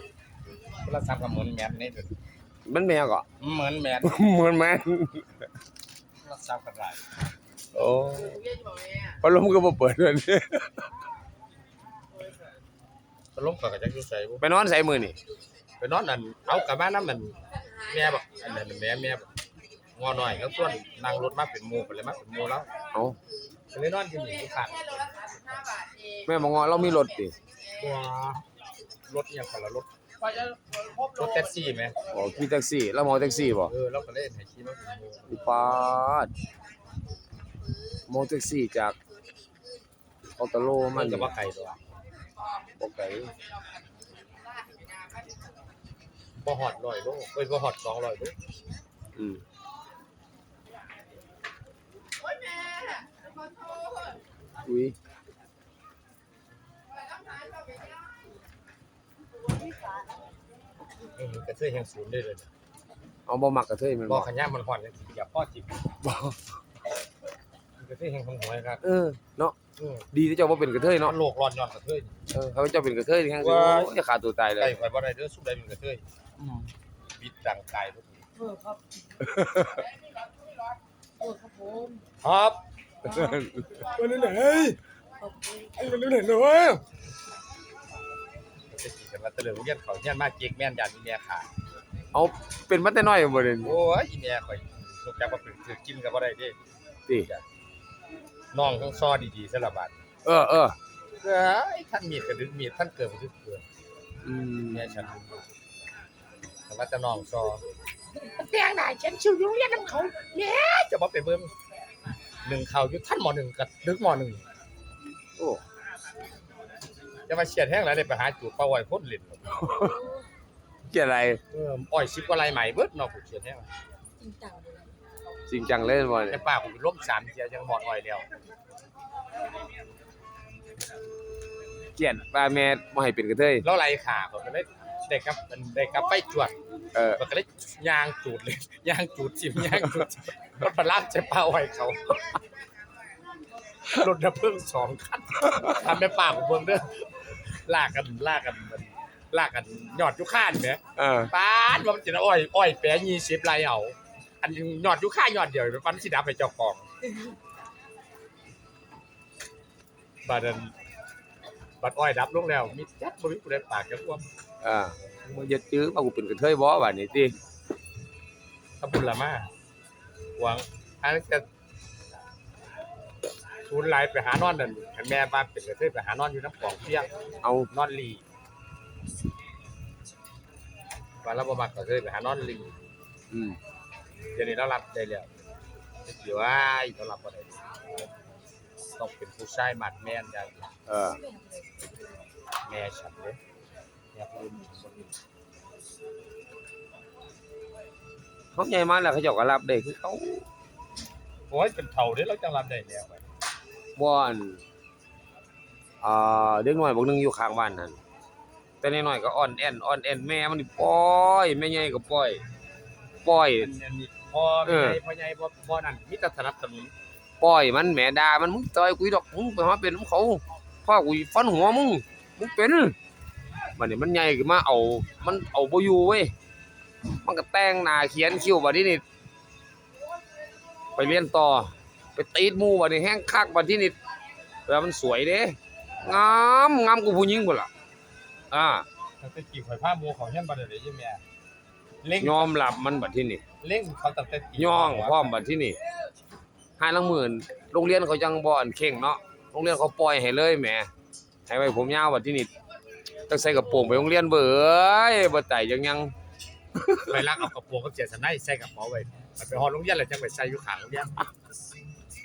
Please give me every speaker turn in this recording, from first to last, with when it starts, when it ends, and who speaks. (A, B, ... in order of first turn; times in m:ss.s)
0:00.8-0:02.1 A
0:02.7-0:03.3 B
0:03.4-0:04.1 A
0:04.0-0:05.4 B
0:06.2-0:07.0 A
0:07.7-0:08.4 B
0:09.0-0:10.9 B
0:13.3-0:14.4 A
0:14.4-0:15.2 B
0:15.8-0:19.3 A
0:20.0-0:22.7 A
0:23.7-0:25.7 A
0:26.2-0:27.4 B
0:27.8-0:28.4 A
0:29.1-0:29.9 A
0:31.1-0:32.0 A
0:32.1-0:33.7 B
0:33.6-0:35.8 A
0:35.3-0:36.3 B
0:38.1-0:39.0 B
0:40.4-0:41.3 B
0:40.9-0:41.8 A
0:42.8-0:43.3 B
0:46.4-0:48.4 A
0:49.2-0:49.4 B
0:54.6-0:55.0 B
1:01.2-1:02.5 A
1:03.3-1:04.3 B
1:04.1-1:05.8 A
1:06.0-1:06.4 B
1:07.8-1:08.8 A
1:08.8-1:09.6 B
1:09.8-1:10.1 A
1:10.1-1:11.2 B
1:11.0-1:12.2 A
1:12.3-1:14.8 B
1:13.4-1:13.9 A
1:14.6-1:16.0 A
1:16.4-1:16.6 B
1:17.2-1:18.2 A
1:18.4-1:19.3 C
1:19.3-1:19.9 B
1:21.2-1:22.0 C
1:22.2-1:22.6 A
1:23.0-1:23.4 C
1:23.1-1:23.8 B
1:23.9-1:24.8 A
1:25.2-1:25.8 C
1:25.8-1:26.8 A
1:28.7-1:31.5 A
1:32.1-1:33.8 B
1:33.6-1:36.6 A
1:38.5-1:39.9 A
1:40.2-1:40.8 B
1:41.2-1:43.6 A
1:44.2-1:45.0 B
1:44.7-1:45.4 A
1:46.7-1:47.6 A
1:48.2-1:51.5 A
1:52.4-1:54.5 A
1:55.4-1:55.6 B
1:57.3-1:59.7 A
1:59.5-2:00.0 B
1:59.8-2:00.3 C
2:00.9-2:01.4 B
2:01.5-2:03.7 A
2:04.2-2:04.9 C
2:05.5-2:06.4 B
2:06.3-2:08.3 A
2:12.0-2:13.6 B
2:13.6-2:16.6 A
2:16.9-2:17.2 B
2:17.2-2:22.4 A
2:23.9-2:36.8 A
2:31.0-2:31.3 B
2:40.2-2:40.7 A
2:41.8-2:44.3 A
2:44.6-2:47.4 B
2:48.8-2:49.5 A
2:50.4-2:51.5 A
2:53.7-2:57.1 A
2:57.4-2:57.7 B
2:57.7-2:58.2 A
3:01.2-3:02.8 A
3:03.3-3:03.6 B
3:04.3-3:05.3 A
3:06.0-3:07.8 A
3:08.8-3:10.7 A
3:10.9-3:11.2 B
3:11.0-3:12.2 C
3:12.6-3:13.4 A
3:14.1-3:15.1 A
3:18.5-3:20.5 B
3:21.5-3:23.2 A
3:24.0-3:24.6 B
3:26.0-3:28.0 B
3:28.8-3:32.4 B
3:33.2-3:33.7 B
3:33.6-3:36.9 A
3:34.7-3:35.0 B
3:37.4-3:43.0 B
3:43.8-3:46.3 B
3:47.2-3:49.0 B
3:51.0-3:54.0 B
3:54.7-3:57.7 B
3:58.5-3:58.9 B
3:59.2-4:01.2 A
4:02.0-4:02.6 A
4:02.2-4:03.4 B
4:03.6-4:05.4 A
4:04.6-4:05.8 B
4:06.8-4:10.9 B
4:11.5-4:12.5 B
4:13.3-4:16.1 B
4:16.8-4:17.2 B
4:17.1-4:21.2 A